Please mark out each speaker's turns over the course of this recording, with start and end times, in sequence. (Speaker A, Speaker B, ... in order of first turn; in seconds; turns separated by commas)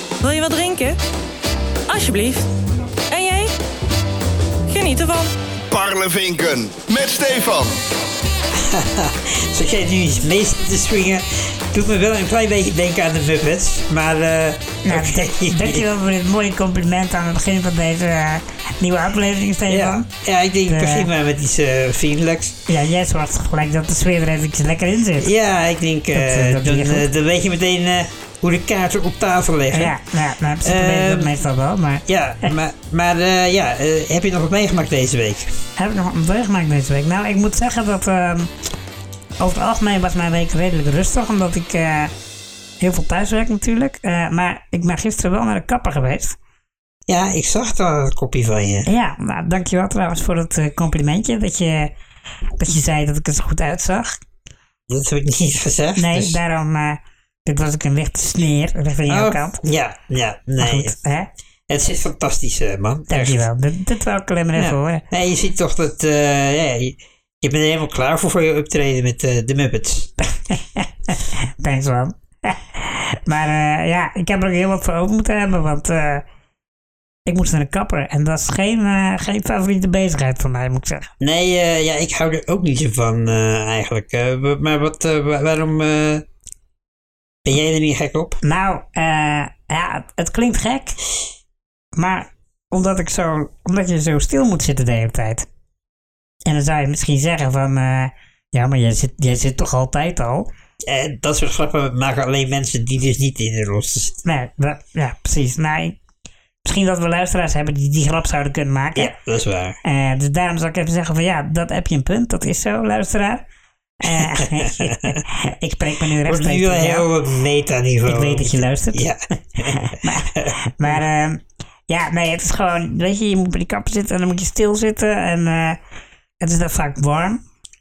Speaker A: 0.2-1.0, Speaker A: 1.9-2.5, Speaker A: 3.1-3.5, Speaker A: 4.7-5.3, Speaker B: 5.7-7.8, Speaker C: 8.5-15.8, Speaker D: 14.8-20.1, Speaker C: 19.7-22.6, Speaker D: 20.7-21.1, Speaker D: 22.7-25.3, Speaker C: 25.2-29.9, Speaker D: 26.1-27.1, Speaker D: 29.7-32.0, Speaker C: 30.6-31.3, Speaker C: 32.1-35.5, Speaker D: 35.8-38.5, Speaker D: 39.4-42.1, Speaker D: 42.8-46.4, Speaker C: 47.1-48.9, Speaker D: 48.9-51.9, Speaker D: 52.6-54.2, Speaker C: 54.9-56.4, Speaker D: 56.0-59.6, Speaker C: 59.1-61.0, Speaker D: 60.6-61.3, Speaker C: 61.7-63.5, Speaker D: 63.1-65.0, Speaker C: 64.6-70.1, Speaker D: 70.5-76.2, Speaker D: 77.3-81.1, Speaker C: 81.2-86.2, Speaker C: 87.5-88.4, Speaker D: 88.4-91.0, Speaker D: 92.0-95.5, Speaker D: 96.5-100.5, Speaker C: 100.8-104.2, Speaker D: 104.2-106.0, Speaker D: 106.6-109.1, Speaker C: 109.0-109.8, Speaker D: 109.8-113.4, Speaker D: 114.0-117.1, Speaker C: 114.0-115.2, Speaker C: 116.2-121.0, Speaker D: 118.1-119.1, Speaker D: 119.6-125.8, Speaker D: 126.4-127.4